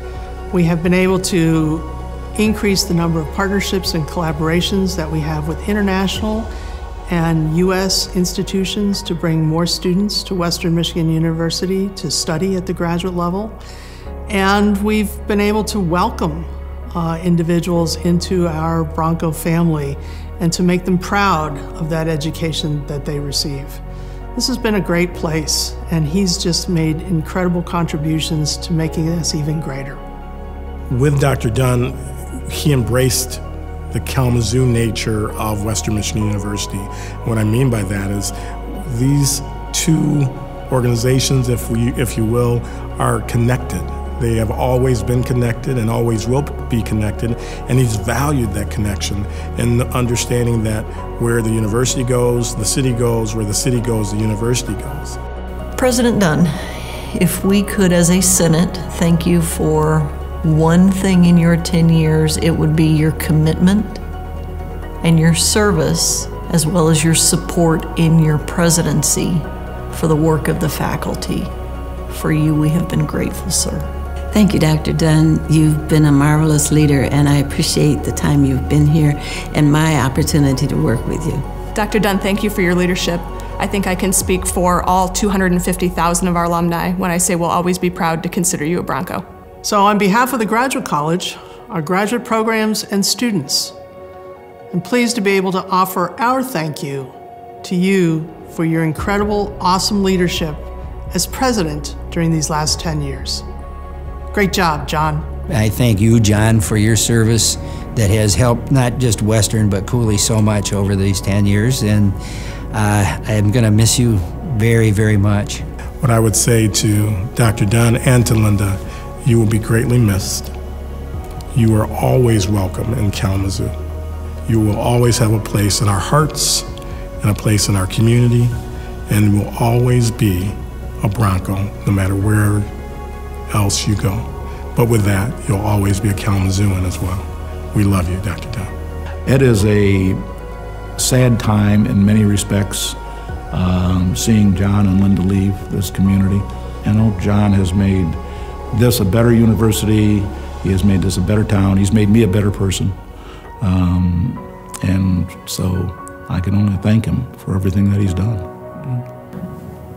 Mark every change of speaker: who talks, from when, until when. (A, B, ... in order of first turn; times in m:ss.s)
0:00.5-0:06.5 A
0:07.1-0:13.6 A
0:14.3-0:23.8 A
0:24.3-0:30.0 A
0:30.9-0:55.2 B
0:55.8-1:04.0 C
1:05.0-1:11.5 C
1:12.1-1:13.9 C
1:14.3-1:21.4 D
1:21.7-1:29.2 E
1:29.6-1:33.8 A
1:34.7-1:43.4 A
1:44.3-1:45.3 A
1:45.5-1:52.2 F
1:52.7-1:55.6 F
1:56.0-2:00.5 B
2:01.5-2:03.7 B
2:04.4-2:06.7 B
2:07.2-2:12.7 B
2:13.5-2:18.7 B
2:19.2-2:20.2 G
2:21.0-2:23.0 G
2:23.5-2:28.2 G
2:28.7-2:33.0 G
2:33.6-2:39.0 G